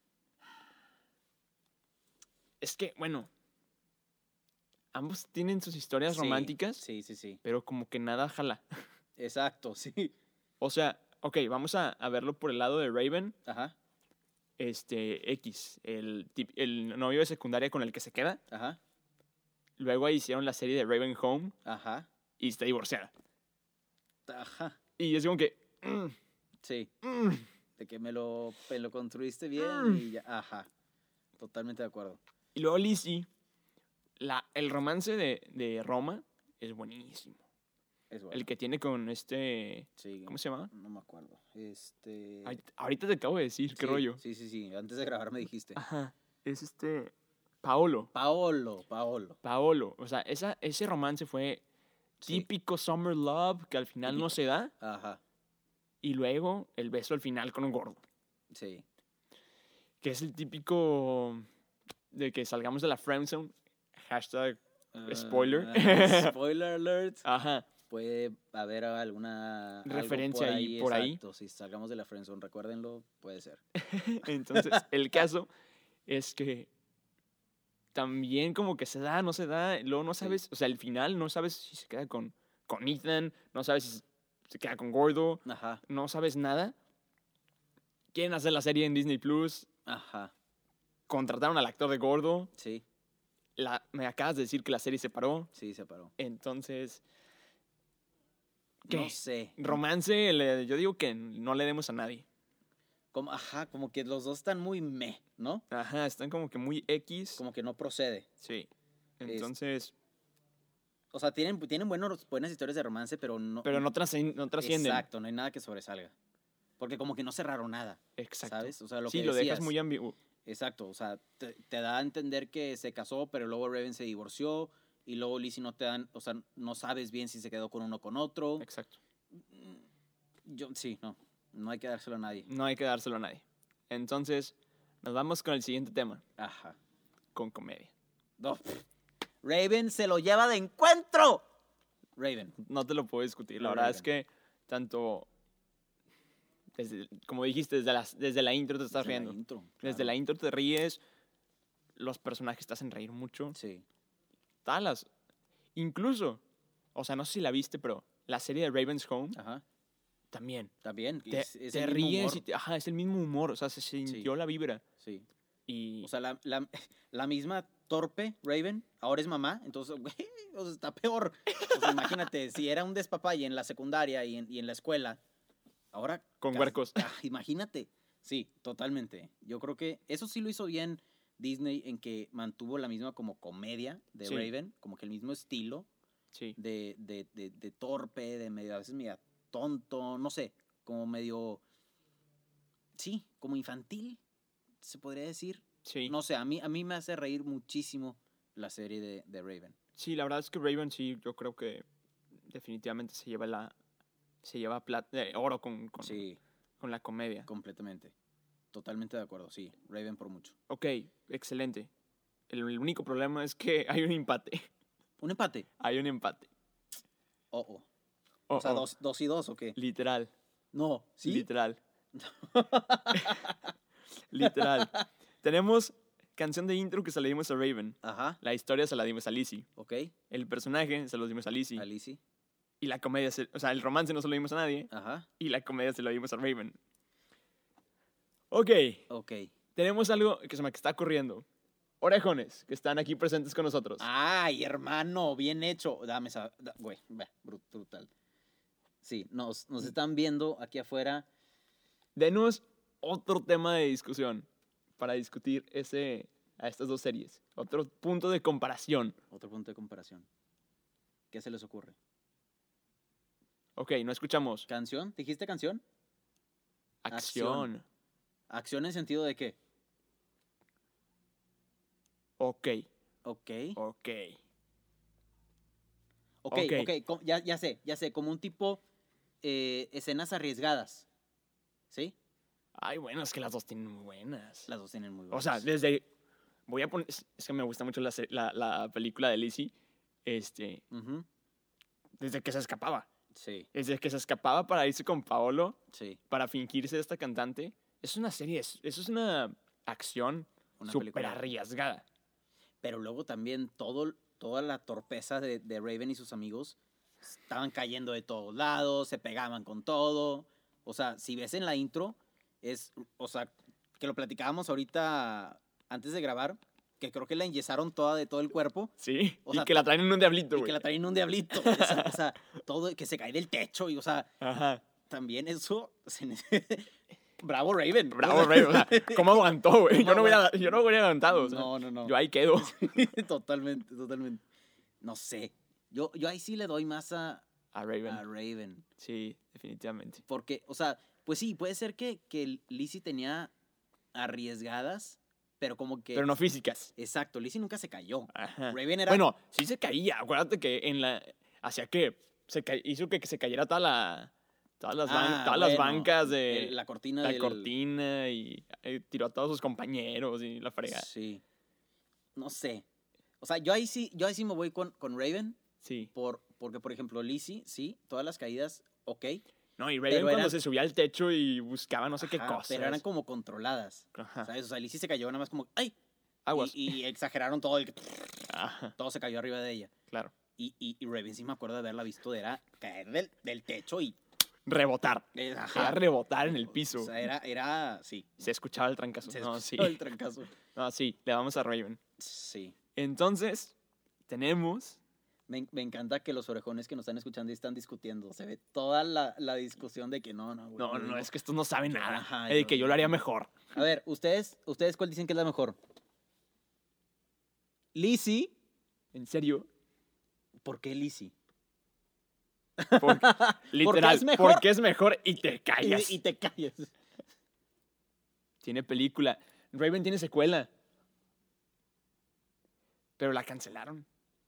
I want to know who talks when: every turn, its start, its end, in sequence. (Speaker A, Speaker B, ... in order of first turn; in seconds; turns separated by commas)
Speaker A: 2.6-3.3, Speaker A: 4.9-6.8, Speaker B: 6.1-7.4, Speaker A: 7.4-8.8, Speaker B: 9.2-10.1, Speaker A: 10.6-13.3, Speaker B: 13.4-13.7, Speaker A: 14.6-18.4, Speaker B: 18.5-18.8, Speaker A: 19.8-21.5, Speaker B: 21.6-22.1, Speaker A: 22.4-23.1, Speaker B: 24.3-24.8, Speaker A: 25.0-26.1, Speaker B: 26.6-26.9, Speaker A: 27.0-27.4, Speaker B: 27.8-30.7, Speaker A: 29.6-30.0, Speaker B: 31.4-32.2, Speaker A: 32.5-33.3, Speaker A: 34.2-37.4, Speaker B: 38.1-38.5, Speaker A: 38.3-40.7, Speaker B: 40.0-42.6, Speaker A: 42.4-44.2, Speaker B: 43.7-45.8, Speaker A: 45.8-48.1, Speaker B: 48.1-49.4, Speaker A: 49.4-51.6, Speaker B: 52.2-52.5, Speaker A: 52.2-54.7, Speaker B: 54.1-55.2, Speaker A: 56.0-58.0, Speaker B: 58.5-58.8, Speaker A: 60.0-61.5, Speaker A: 62.1-66.3, Speaker B: 64.9-67.2, Speaker A: 67.2-67.7, Speaker B: 67.9-73.6, Speaker A: 69.8-71.2, Speaker A: 73.8-75.5, Speaker B: 74.5-74.8, Speaker A: 76.1-76.7, Speaker A: 77.9-86.7, Speaker B: 85.4-85.8, Speaker A: 88.1-89.7, Speaker B: 89.8-90.3, Speaker A: 91.1-92.5, Speaker B: 92.5-92.8, Speaker A: 93.6-95.5, Speaker B: 95.5-96.1, Speaker A: 96.2-97.0, Speaker B: 98.9-99.8, Speaker A: 98.9-102.2, Speaker B: 103.1-105.6, Speaker A: 105.7-107.4, Speaker B: 107.4-108.3, Speaker A: 108.4-108.7, Speaker A: 109.2-109.9, Speaker B: 111.1-113.8, Speaker A: 113.6-115.0, Speaker B: 114.6-116.1, Speaker B: 116.8-119.7, Speaker A: 118.2-120.2, Speaker B: 120.5-128.7, Speaker A: 128.6-129.0, Speaker B: 129.5-129.8, Speaker B: 130.4-132.5, Speaker A: 132.5-136.2, Speaker B: 136.4-136.8, Speaker A: 137.3-137.9, Speaker B: 138.4-138.8, Speaker B: 139.4-141.4, Speaker B: 142.2-142.6, Speaker A: 142.6-145.3, Speaker B: 143.6-144.1, Speaker A: 146.8-151.0, Speaker B: 148.9-150.1, Speaker A: 151.9-153.6, Speaker B: 153.5-153.8, Speaker A: 154.6-155.1, Speaker A: 155.7-156.4, Speaker A: 156.9-159.4, Speaker B: 159.3-159.6, Speaker A: 160.3-160.7, Speaker B: 160.8-162.4, Speaker A: 161.3-164.8, Speaker B: 165.0-165.3, Speaker A: 165.7-166.1, Speaker B: 166.0-175.2, Speaker A: 171.7-172.2, Speaker B: 175.9-185.9, Speaker A: 176.4-177.1, Speaker A: 184.2-184.5, Speaker B: 186.6-191.6, Speaker B: 192.9-194.2, Speaker B: 194.8-199.7, Speaker A: 195.8-196.1, Speaker A: 199.9-201.8, Speaker A: 202.5-203.7, Speaker A: 204.4-206.2, Speaker B: 206.0-206.4, Speaker A: 206.8-207.5, Speaker B: 207.5-208.1, Speaker B: 208.7-210.5, Speaker A: 210.7-211.9, Speaker A: 212.5-214.7, Speaker B: 215.2-215.7, Speaker A: 215.8-216.5, Speaker B: 217.5-217.8, Speaker A: 218.5-218.8, Speaker B: 218.5-219.8, Speaker A: 219.8-220.3, Speaker B: 220.7-221.5, Speaker A: 221.2-221.8, Speaker B: 222.1-223.6, Speaker A: 224.3-229.7, Speaker B: 224.4-225.0, Speaker B: 228.0-228.4, Speaker B: 229.8-230.1, Speaker A: 230.3-231.8, Speaker B: 231.8-232.2, Speaker A: 232.8-234.9, Speaker B: 234.9-235.3, Speaker A: 235.4-236.8, Speaker A: 238.5-239.0, Speaker B: 239.1-239.5, Speaker A: 239.8-241.4, Speaker A: 242.0-244.1, Speaker B: 244.0-248.1, Speaker B: 249.0-251.2, Speaker A: 252.2-254.5, Speaker A: 255.0-259.2, Speaker B: 259.3-260.2, Speaker B: 261.3-261.9, Speaker A: 263.8-264.7, Speaker B: 264.7-265.8, Speaker A: 267.0-267.8, Speaker B: 267.1-267.7, Speaker B: 268.5-269.6, Speaker A: 272.4-272.9, Speaker B: 273.2-273.8, Speaker A: 273.8-274.4, Speaker B: 276.4-278.8, Speaker A: 276.5-276.9, Speaker B: 279.4-281.1, Speaker A: 282.8-284.7, Speaker B: 284.7-285.6, Speaker A: 285.3-286.1, Speaker A: 286.7-289.7, Speaker A: 290.2-290.8, Speaker B: 290.9-291.2, Speaker A: 292.2-293.1, Speaker B: 293.3-293.7, Speaker A: 293.7-295.8, Speaker B: 295.9-296.2, Speaker A: 296.3-302.0, Speaker B: 300.8-301.4, Speaker B: 302.8-318.9, Speaker A: 319.0-320.8, Speaker B: 319.4-319.8, Speaker B: 320.5-324.3, Speaker A: 321.5-322.2, Speaker A: 324.4-324.8, Speaker B: 325.1-330.6, Speaker A: 328.1-332.8, Speaker B: 331.3-334.4, Speaker B: 335.0-337.4, Speaker A: 337.7-338.2, Speaker B: 338.1-338.9, Speaker A: 339.0-340.2, Speaker B: 340.3-343.5, Speaker B: 344.1-346.3, Speaker A: 346.1-346.9, Speaker B: 346.9-349.2, Speaker A: 348.3-361.1, Speaker B: 355.1-357.7, Speaker B: 360.9-361.4, Speaker B: 362.4-362.8, Speaker B: 363.4-365.6, Speaker A: 365.8-366.1, Speaker B: 366.1-369.4, Speaker A: 369.8-373.0, Speaker B: 370.1-370.6, Speaker B: 372.2-375.9, Speaker A: 374.1-374.5, Speaker A: 376.4-376.9, Speaker B: 376.5-378.4, Speaker A: 378.5-378.9, Speaker B: 379.0-379.9, Speaker B: 380.6-384.2, Speaker A: 384.6-387.1, Speaker B: 385.3-386.0, Speaker B: 386.7-388.3, Speaker A: 388.4-390.0, Speaker B: 389.3-390.5, Speaker A: 390.7-392.0, Speaker B: 392.2-392.8, Speaker A: 392.9-393.7, Speaker A: 394.3-395.0, Speaker B: 395.5-401.3, Speaker A: 400.8-403.6, Speaker B: 401.9-403.2, Speaker B: 403.7-405.8, Speaker B: 407.9-408.5, Speaker A: 409.1-409.7, Speaker B: 410.6-411.3, Speaker B: 412.8-414.6, Speaker A: 413.0-416.2, Speaker B: 415.8-416.9, Speaker A: 418.6-420.7, Speaker A: 423.2-424.1